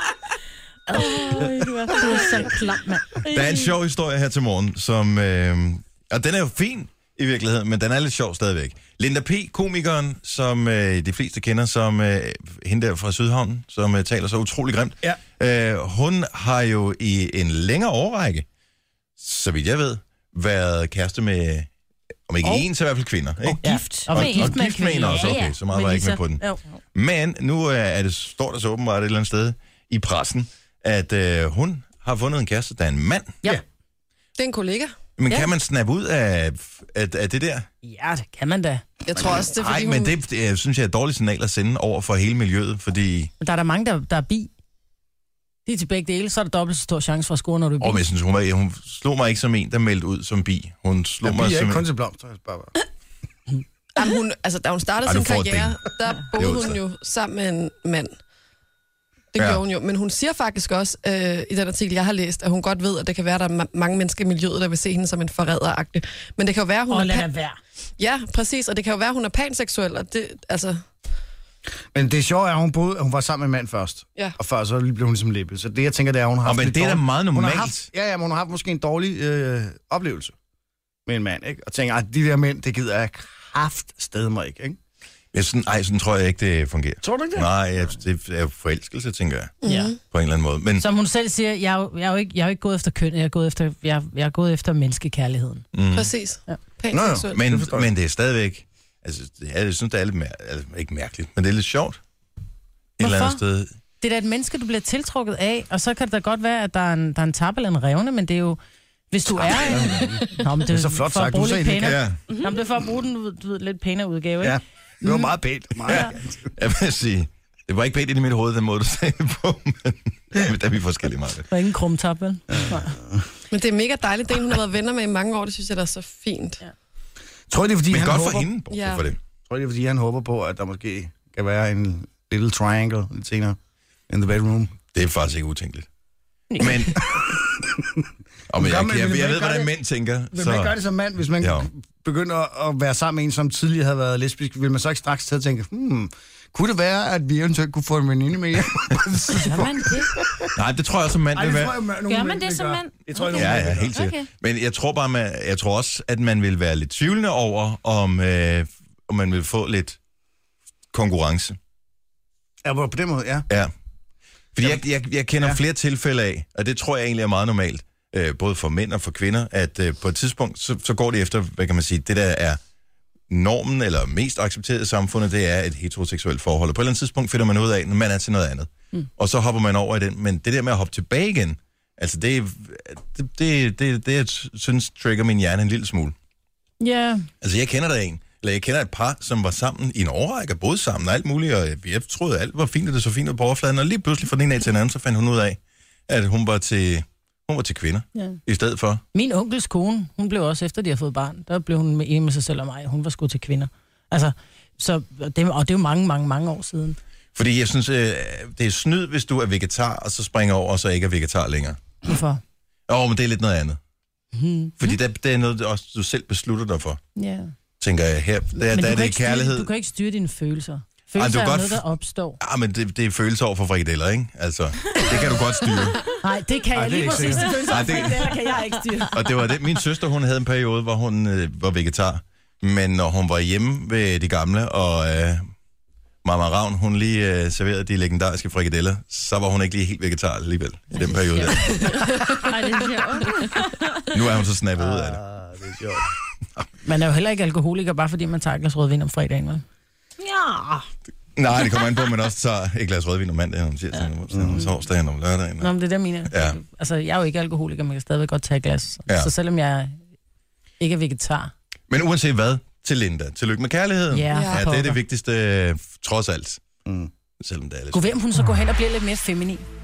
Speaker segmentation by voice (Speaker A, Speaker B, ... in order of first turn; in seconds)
Speaker A: 0.9-3.2, 23.6-26.6, 37.8-38.8, 43.4-44.5, 45.6-48.0, 66.9-67.6, 89.6-89.9, 90.8-95.6, 103.0-103.4, 104.0-108.6, 109.1-115.3, 121.5-122.9, 136.5-136.8, 186.8-187.3, 199.1-207.0, 212.0-212.4, 214.3-214.8, 217.2-217.5, 218.6-222.4, 226.2-229.2, 241.1-243.5, 246.8-249.6, 255.6-260.0, 260.8-261.5, 264.1-265.0, 267.9-269.6
Speaker B: 1.0-2.4, 3.2-3.7, 23.5-25.6, 149.4-150.1, 152.1-154.3, 242.4-243.9, 250.2-250.9
Speaker C: 3.3-18.4, 19.2-21.7, 22.3-26.4, 26.9-33.4, 35.2-37.7, 39.5-43.3, 47.8-51.9, 55.0-55.8, 56.3-56.8, 59.4-59.6, 76.4-77.9, 85.3-90.9, 95.7-96.1, 97.3-102.0, 103.0-103.7, 111.8-112.2, 115.9-121.5, 127.9-129.2, 134.9-135.9, 136.6-137.1, 138.5-140.8, 141.4-141.7, 150.6-151.8, 153.3-160.0, 160.9-161.6, 164.5-172.6, 173.3-186.1, 187.4-199.0, 207.3-211.8, 212.9-213.8, 214.8-217.0, 217.8-219.7, 221.2-221.8, 222.4-226.0, 227.7-228.3, 229.1-235.4, 236.2-241.8, 244.1-245.2, 251.4-255.7, 256.3-256.6, 261.9-266.6, 267.4-268.1
Speaker D: 34.4-34.9, 39.0-40.1, 54.0-58.1, 59.3-67.3, 68.0-70.8, 89.6-90.0, 95.9-97.4, 123.5-126.6, 128.7-129.0, 264.3-264.6
Speaker E: 51.2-52.7, 71.9-80.3, 81.0-84.8, 87.0-87.5, 96.9-97.9, 109.5-112.0, 114.4-116.5, 122.5-123.3, 127.5-128.5, 129.5-133.6, 134.1-134.8, 137.1-139.7, 140.3-150.5, 151.3-153.9, 162.6-163.5, 226.7-227.7, 244.8-246.1, 254.3-254.6, 266.9-267.1